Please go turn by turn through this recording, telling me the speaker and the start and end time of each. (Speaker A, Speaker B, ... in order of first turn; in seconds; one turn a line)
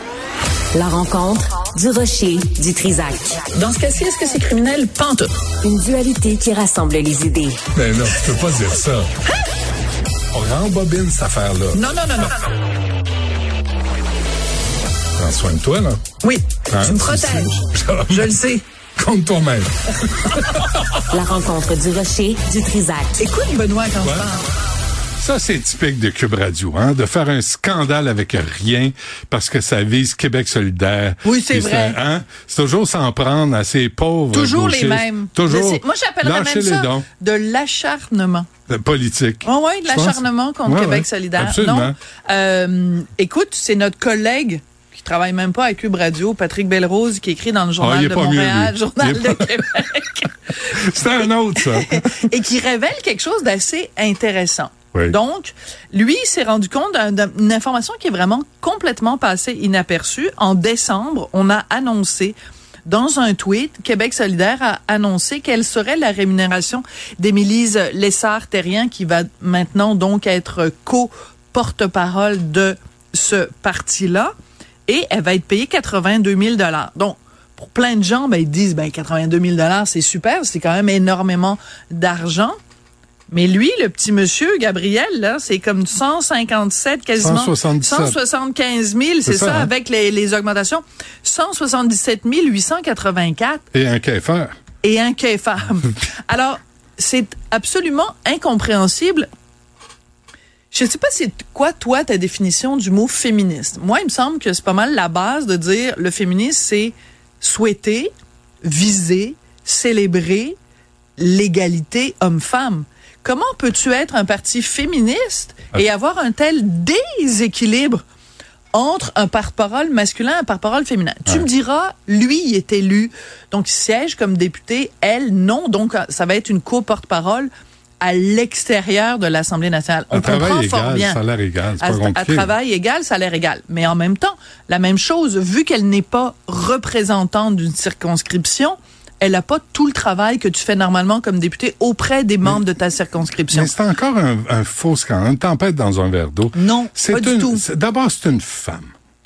Speaker A: 0.7-3.4
Speaker B: 3.5-5.3
Speaker A: 5.6-7.6
Speaker C: 7.8-9.1
Speaker C: 10.3-11.9
Speaker B: 11.7-12.4
Speaker C: 15.2-16.0
Speaker B: 16.2-18.6
Speaker C: 16.7-18.4
Speaker C: 19.0-21.0
Speaker A: 21.1-23.2
Speaker B: 23.2-24.5
Speaker C: 24.0-24.3
Speaker C: 25.2-37.1
Speaker B: 31.2-32.0
Speaker B: 34.3-38.5
Speaker C: 38.7-42.0
Speaker B: 39.4-50.3
Speaker C: 47.8-49.7
Speaker C: 50.7-52.3
Speaker B: 51.6-74.3
Speaker B: 74.9-82.5
Speaker B: 83.3-93.6
Speaker C: 87.2-88.2
Speaker C: 89.2-89.7
Speaker C: 93.7-94.5
Speaker B: 94.8-99.3
Speaker B: 100.7-108.1
Speaker B: 108.6-110.5
Speaker B: 111.2-118.0
Speaker B: 118.7-127.5
Speaker B: 128.0-131.2
Speaker C: 130.1-132.5
Speaker B: 131.8-143.7
Speaker C: 143.5-148.9
Speaker B: 146.5-147.6